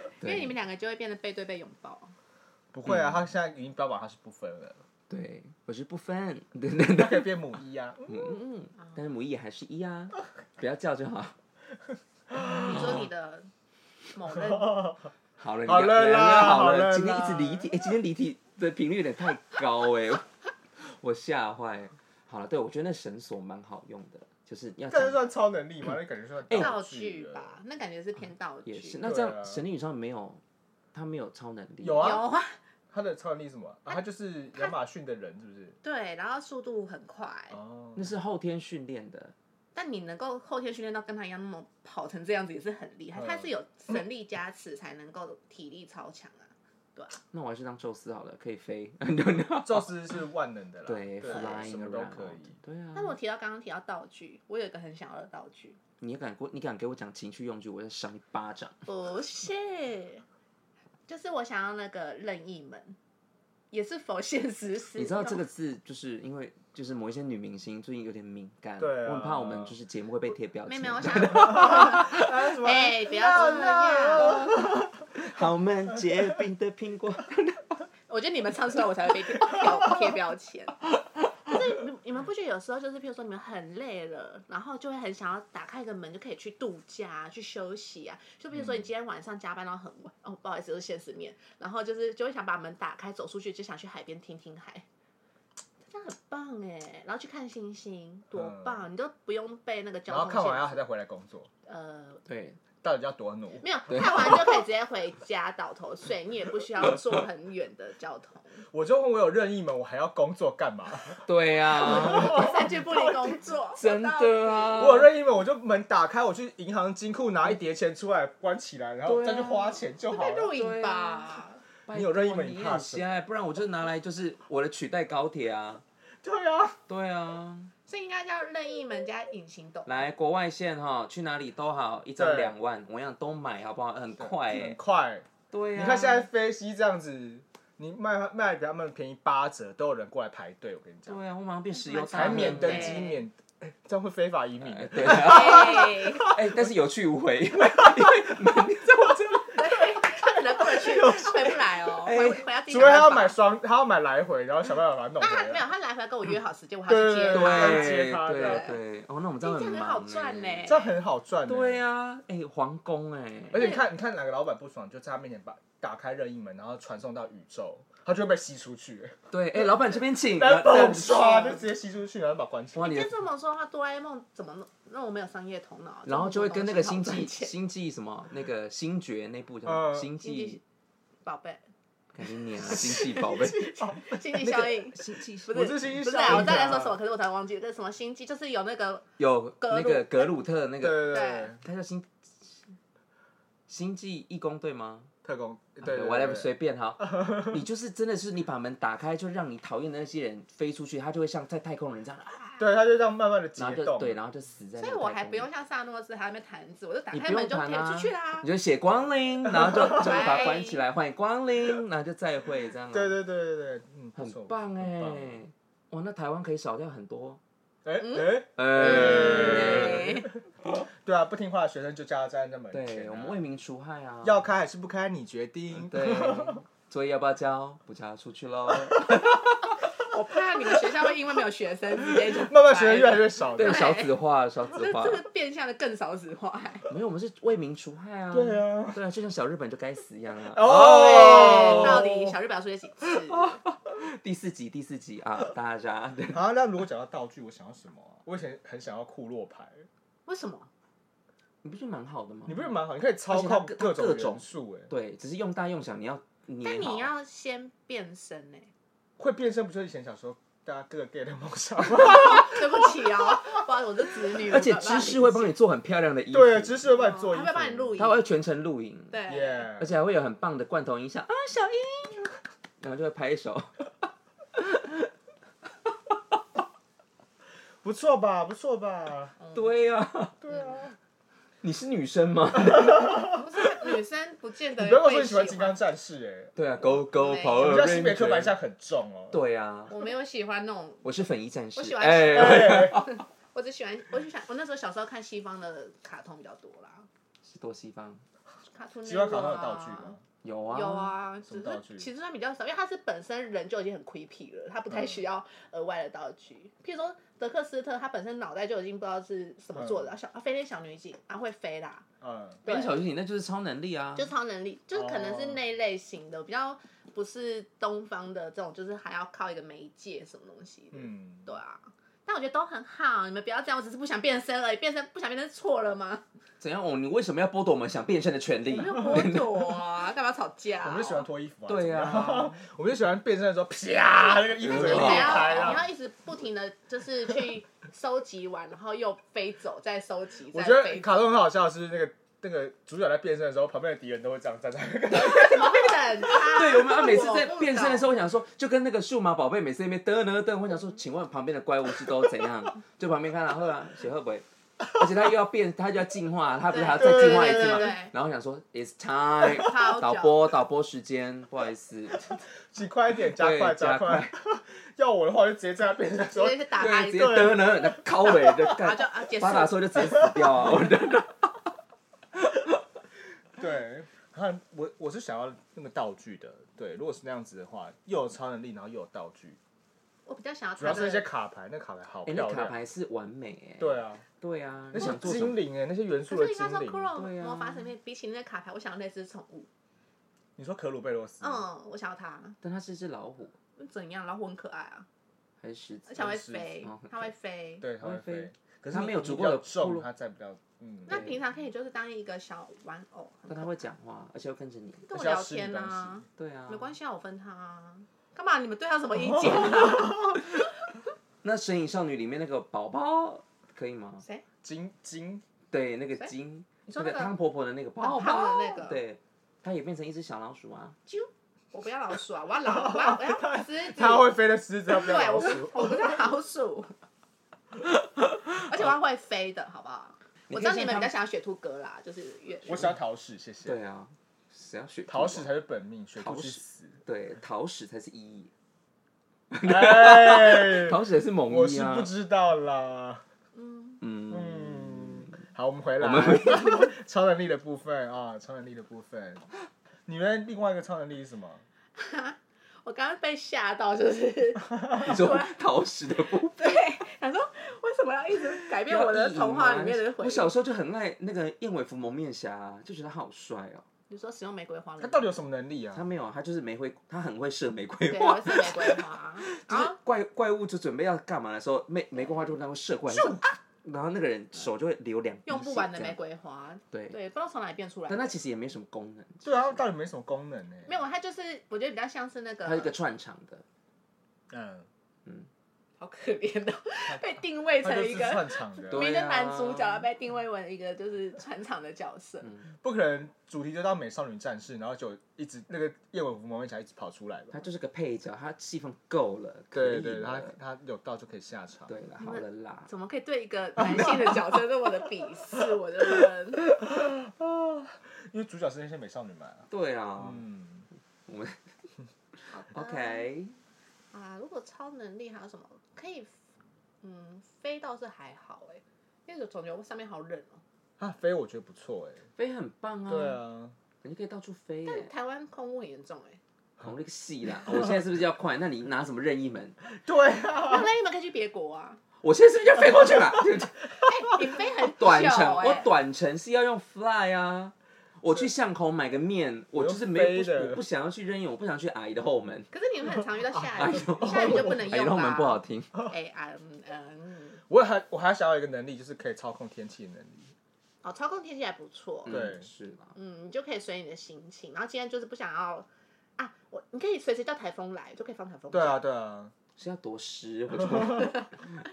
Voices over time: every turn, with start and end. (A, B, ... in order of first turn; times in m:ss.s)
0:00.2-0:00.5 A
0:00.2-0:02.1 B
0:02.7-0:04.8 C
0:02.9-0:03.2 A
0:05.1-0:07.3 A
0:06.9-0:08.3 C
0:08.1-0:11.4 A
0:12.3-0:13.0 C
0:12.5-0:13.5 B
0:12.7-0:13.0 A
0:14.1-0:14.9 B
0:14.3-0:15.1 C
0:15.4-0:25.2 A
0:15.6-0:17.7 C
0:24.9-0:27.6 C
0:26.5-0:29.0 B
0:28.6-0:30.4 A
0:29.0-0:29.6 C
0:30.9-0:32.2 A
0:31.8-0:32.2 C
0:32.0-0:32.6 B
0:32.9-0:35.8 C
0:35.8-0:37.6 B
0:37.5-0:38.1 C
0:38.0-0:39.3 A
0:39.8-0:47.2 B
0:43.1-0:43.5 C
0:47.3-0:49.9 A
0:49.6-0:52.6 C
0:50.9-0:53.2 A
0:51.3-0:51.7 B
0:53.0-0:55.8 B
0:56.0-0:58.8 A
0:58.9-1:00.2 B
1:01.1-1:03.0 B
1:03.7-1:05.4 B
1:05.0-1:12.3 A
1:08.8-1:09.8 C
1:10.7-1:14.5 B
1:11.3-1:14.9 C
1:14.2-1:17.7 A
1:18.1-1:20.8 B
1:21.5-1:34.9 B
1:35.9-1:40.8 B
1:38.3-1:38.9 C
1:40.1-1:41.5 C
1:41.7-1:42.2 B
1:42.3-1:42.6 A
1:42.8-1:44.4 C
1:43.6-1:48.6 B
1:43.9-1:44.4 A
1:48.7-1:53.3 C
1:51.2-1:52.7 A
1:51.8-1:54.9 B
1:53.8-1:55.1 A
1:54.8-2:00.5 C
1:59.1-1:59.8 A
2:00.1-2:01.6 B
2:00.5-2:05.8 A
2:01.9-2:03.2 C
2:06.2-2:06.8 C
2:06.9-2:07.7 A
2:07.9-2:10.0 B
2:09.9-2:14.8 A
2:12.2-2:12.5 C
2:14.2-2:21.2 C
2:15.5-2:16.3 A
2:21.1-2:23.2 A
2:21.8-2:23.2 B
2:22.1-2:26.7 C
2:24.6-2:29.8 A
2:25.0-2:26.3 B
2:27.8-2:28.2 C
2:29.5-2:33.4 B
2:30.8-2:31.5 C
2:32.0-2:32.5 A
2:32.7-2:35.6 C
2:35.2-2:38.8 B
2:36.9-2:38.7 C
2:37.3-2:40.7 A
2:39.4-2:40.9 B
2:40.6-2:41.8 C
2:41.5-2:43.6 A
2:43.5-2:49.2 C
2:43.5-2:43.8 B
2:49.3-2:51.6 A
2:50.3-2:53.0 C
2:52.8-2:53.2 A
2:52.8-2:57.5 B
2:56.1-3:00.6 A
2:59.6-3:00.1 C
3:00.2-3:00.6 B
3:01.2-3:01.6 B
3:02.1-3:03.7 A
3:02.6-3:04.7 C
3:02.7-3:09.1 B
3:04.5-3:06.7 A
3:05.5-3:07.0 C
3:09.2-3:12.6 A
3:09.6-3:10.3 B
3:10.8-3:11.6 C
3:11.0-3:11.5 B
3:13.7-3:15.1 A
3:15.2-3:17.6 C
3:15.8-3:22.6 A
3:22.6-3:24.2 C
3:23.6-3:25.5 A
3:24.8-3:28.5 B
3:27.1-3:33.2 A
3:29.6-3:29.9 C
3:29.9-3:30.8 B
3:32.9-3:35.4 C
3:34.2-3:37.4 A
3:37.8-3:43.4 C
3:38.0-3:40.3 B
3:38.6-3:40.2 A
3:42.7-3:44.5 A
3:44.2-3:46.6 C
3:45.8-3:49.8 A
3:50.1-3:54.2 B
3:52.2-3:53.9 C
3:53.5-3:55.2 A
3:54.7-3:56.9 B
3:56.9-4:02.0 A
3:58.3-3:59.0 C
4:00.5-4:02.3 C
4:00.7-4:03.6 B
4:03.4-4:06.4 A
4:06.3-4:09.9 C
4:10.3-4:10.7 B
4:11.6-4:12.7 A
4:12.5-4:14.9 C
4:13.3-4:17.1 A
4:16.6-4:18.7 B
4:19.2-4:22.9 C
4:22.1-4:25.5 B
4:24.4-4:26.9 A
4:26.3-4:28.0 C
4:26.9-4:28.2 B
4:28.0-4:29.2 A
4:29.1-4:29.7 B
4:29.3-4:30.0 C
4:29.8-4:33.9 A
4:34.6-4:35.1 A
4:37.8-4:39.4 C
4:39.5-4:40.4 A
4:40.4-4:40.9 C
4:41.6-4:43.4 A
4:42.9-4:43.2 C
4:43.4-4:45.8 B
4:44.8-4:46.5 C
4:46.6-4:48.6 A
4:47.2-4:47.6 B
4:47.6-4:49.4 C
4:49.3-4:49.9 A
4:49.9-4:51.1 B
4:51.0-4:53.2 A
4:51.8-4:57.1 B
4:52.6-4:52.9 C
4:57.4-4:58.2 A
4:58.7-5:00.2 B
4:59.0-5:00.2 C
5:00.4-5:01.2 A
5:00.7-5:12.0 B
5:01.5-5:02.1 C
5:04.9-5:05.2 C
5:09.8-5:10.1 C
5:12.2-5:12.6 C
5:12.6-5:13.0 B
5:12.7-5:14.3 A
5:14.2-5:26.2 B
5:14.9-5:15.6 C
5:20.9-5:21.6 C
5:26.6-5:29.8 A
5:28.7-5:31.3 B
5:30.8-5:35.9 C
5:31.7-5:32.6 A
5:34.6-5:35.8 A
5:34.7-5:41.2 B
5:40.5-5:46.1 C
5:45.1-5:48.1 B
5:46.3-6:02.4 A
5:56.7-5:58.1 B
5:59.4-6:00.5 B
6:02.6-6:07.7 C
6:03.3-6:04.3 A
6:06.3-6:09.9 B
6:06.8-6:11.6 A
6:12.3-6:12.8 A
6:13.6-6:19.6 C
6:20.3-6:21.3 B
6:20.8-6:22.8 C
6:22.3-6:25.6 A
6:23.8-6:24.2 C
6:24.9-6:27.1 C
6:25.0-6:25.4 B
6:26.3-6:29.7 B
6:27.2-6:27.9 A
6:30.6-6:31.6 C
6:31.4-6:32.6 B
6:32.6-6:33.6 A
6:33.8-6:35.1 B
6:35.6-6:37.3 A
6:36.1-6:37.9 B
6:36.2-6:36.7 C
6:37.8-6:41.2 C
6:38.0-6:40.1 A
6:41.1-6:43.7 B
6:41.1-6:41.4 A
6:43.5-6:45.1 A
6:45.1-6:50.6 B
6:45.1-6:46.2 C
6:46.4-6:46.9 A
6:49.4-6:50.1 A
6:51.4-6:54.2 A
6:54.6-6:55.4 C
6:55.7-7:01.0 A
6:56.9-6:57.4 B
6:58.0-6:59.0 B
7:01.1-7:04.3 B
7:02.7-7:06.2 C
7:04.9-7:07.0 B
7:08.4-7:08.9 A
7:08.7-7:12.9 B
7:10.5-7:11.1 A
7:12.7-7:13.8 C
7:13.6-7:15.5 A
7:15.1-7:17.0 C
7:16.2-7:18.5 A
7:19.5-7:22.1 A
7:19.6-7:23.2 C
7:23.6-7:24.0 B
7:24.0-7:25.4 A
7:24.3-7:29.5 C
7:26.0-7:26.9 A
7:30.1-7:31.6 C
7:32.0-7:35.5 B
7:35.0-7:36.7 A
7:36.5-7:40.5 B
7:38.9-7:43.8 A
7:44.1-7:45.3 B
7:45.0-7:46.1 C
7:45.9-7:56.2 A
7:48.1-7:50.0 B
7:53.2-7:53.5 B
7:55.5-7:58.4 B
7:58.1-7:59.6 A
7:59.4-8:00.9 C
8:00.9-8:02.9 B
8:02.6-8:03.6 A
8:04.5-8:04.9 C
8:06.0-8:12.5 B
8:07.8-8:09.1 C
8:08.9-8:10.0 A
8:12.4-8:12.7 A
8:12.8-8:17.6 C
8:17.5-8:20.5 A
8:19.7-8:21.9 C
8:21.9-8:22.9 A
8:22.2-8:26.6 B
8:26.8-8:30.9 C
8:29.7-8:30.4 A
8:31.3-8:31.6 A
8:32.4-8:33.6 A
8:32.5-8:33.3 B
8:34.1-8:36.4 B
8:37.0-8:40.6 B
8:41.0-8:42.2 C
8:42.4-8:43.4 A
8:43.1-8:43.8 C
8:44.0-8:45.1 A
8:44.9-8:46.4 B
8:46.8-8:49.8 A
8:49.9-8:50.9 C
8:50.6-8:52.0 B
8:52.2-8:53.8 A
8:54.0-8:55.9 B
8:54.9-9:02.7 A
8:59.7-9:00.8 C
9:02.7-9:07.6 B
9:03.6-9:06.0 A
9:04.3-9:04.7 C
9:07.7-9:10.5 C
9:11.0-9:12.3 B
9:12.3-9:13.1 A
9:12.3-9:12.7 C
9:13.2-9:15.9 B
9:16.4-9:19.0 B
9:18.7-9:19.5 C
9:19.8-9:21.6 A